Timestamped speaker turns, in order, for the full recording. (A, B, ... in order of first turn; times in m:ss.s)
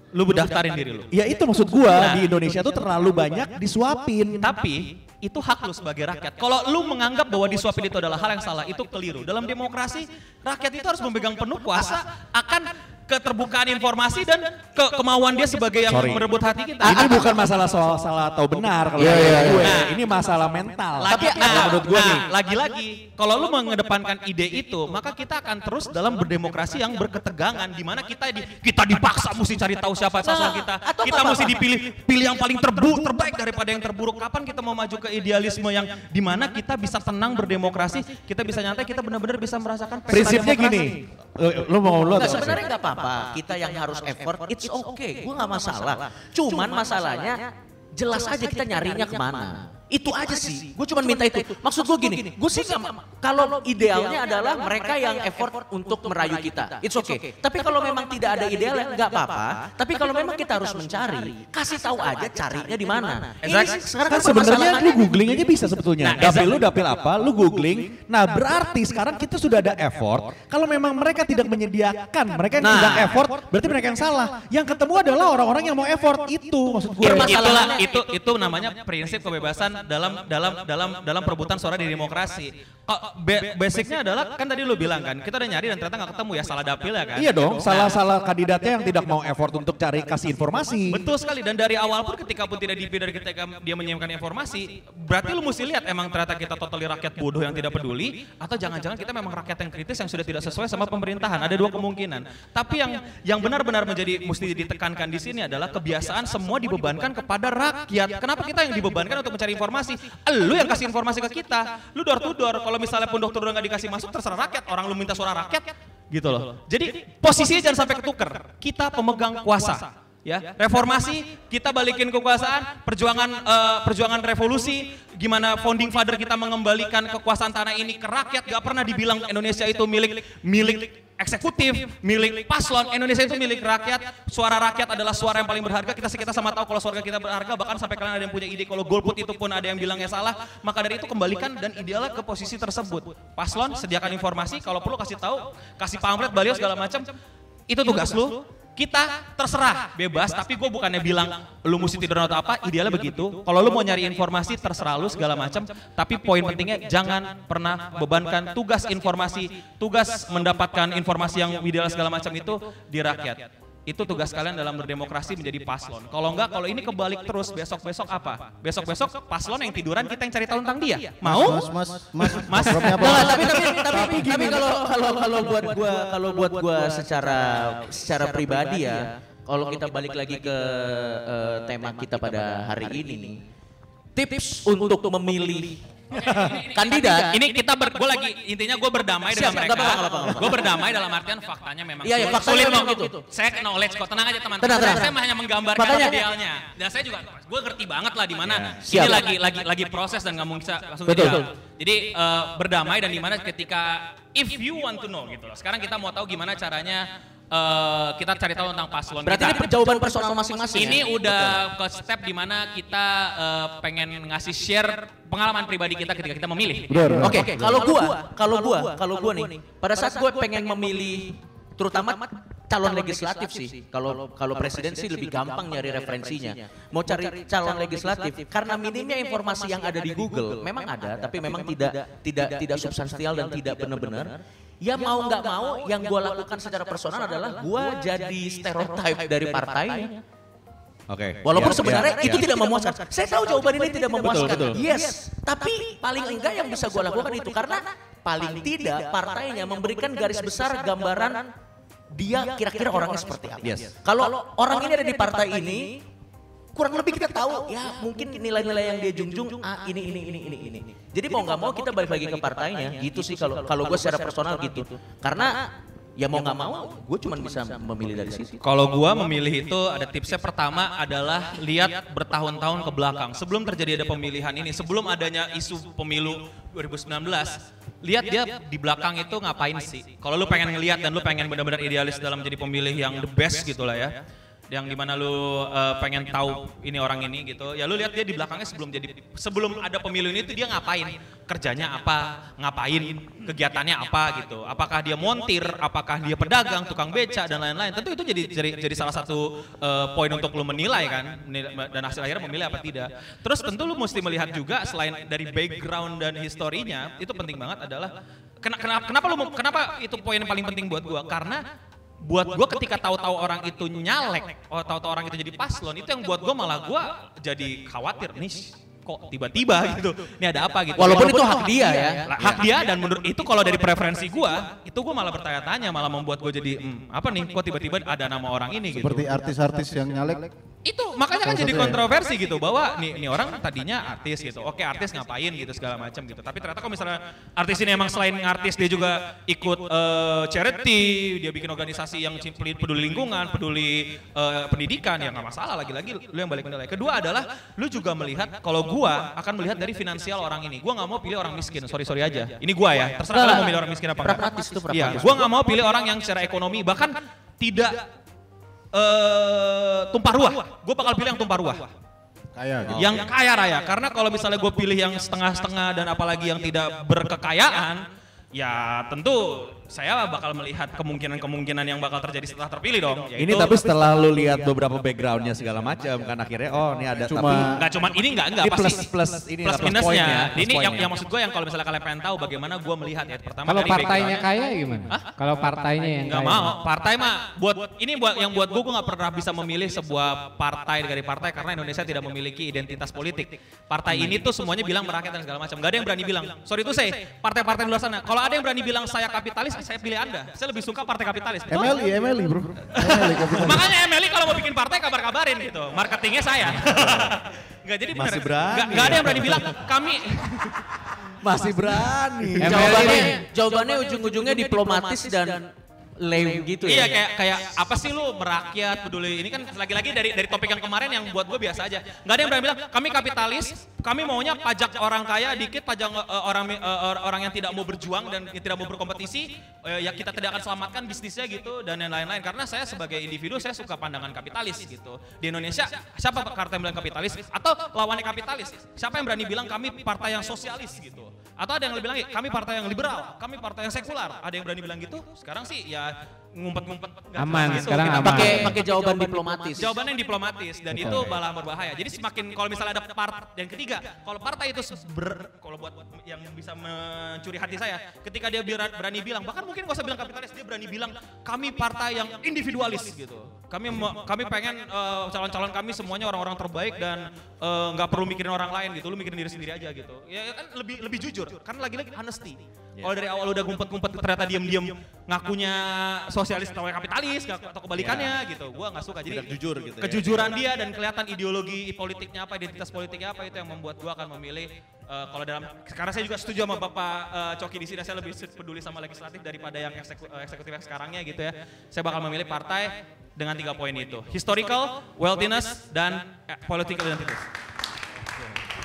0:00.1-0:01.1 A
0:01.1-0:04.5 B
0:01.9-0:02.2 A
0:04.4-0:17.2 A
0:15.9-0:16.3 B
0:16.8-0:22.3 B
0:16.9-0:17.3 C
0:19.0-0:19.7 C
0:19.0-0:19.7 D
0:19.6-0:19.9 A
0:21.0-0:40.8 A
0:21.1-0:21.9 C
0:30.2-0:31.6 C
0:40.1-0:42.6 B
0:42.1-1:05.2 C
1:03.4-1:03.8 A
1:04.0-1:17.5 B
1:06.0-1:06.6 A
1:12.6-1:13.2 C
1:17.0-1:17.9 C
1:17.1-1:28.0 A
1:27.2-1:31.0 B
1:30.9-2:27.1 A
2:27.7-2:53.8 A
2:51.2-2:53.4 D
2:53.0-3:03.4 C
2:53.4-2:54.6 B
3:04.1-3:05.8 C
3:06.2-3:29.7 A
3:06.2-3:06.5 B
3:06.7-3:07.4 C
3:09.3-3:10.8 C
3:12.0-3:13.2 C
3:14.6-3:15.2 C
3:15.7-3:16.2 C
3:18.4-3:19.1 B
3:18.9-3:19.3 C
3:21.1-3:21.5 C
3:29.2-3:31.5 C
3:30.7-3:37.2 A
3:36.9-3:37.8 D
3:37.2-4:00.2 C
4:01.1-4:02.4 B
4:01.4-4:11.5 C
4:04.2-4:04.8 B
4:12.1-4:16.0 C
4:13.6-4:13.9 B
4:16.7-4:28.6 C
4:28.6-4:44.1 A
4:44.7-5:08.1 A
5:08.6-5:11.6 A
5:12.2-5:21.7 A
5:21.0-5:22.5 C
5:22.2-5:29.2 A
5:28.9-5:30.5 D
5:30.8-5:58.0 A
5:31.4-5:32.0 D
5:53.3-5:55.5 C
5:58.9-6:01.9 A
6:02.6-6:03.2 D
6:02.9-6:03.2 B
6:03.0-6:08.0 A
6:08.5-6:13.7 A
6:13.4-6:17.7 B
6:17.3-6:17.7 D
6:17.8-6:19.0 A
6:18.6-6:21.1 B
6:19.6-6:24.4 A
6:23.7-6:26.8 E
6:26.3-6:42.0 A
6:41.7-6:43.9 D
6:43.0-6:50.8 A
6:46.8-6:47.2 B
6:48.1-6:49.8 B
6:51.4-6:53.4 B
6:52.6-6:53.4 E
6:52.6-6:57.2 C
6:56.8-7:28.7 A
7:27.4-7:28.7 E
7:28.2-7:29.9 C
7:29.8-8:17.5 A
7:58.0-7:58.4 B
7:59.3-8:00.6 B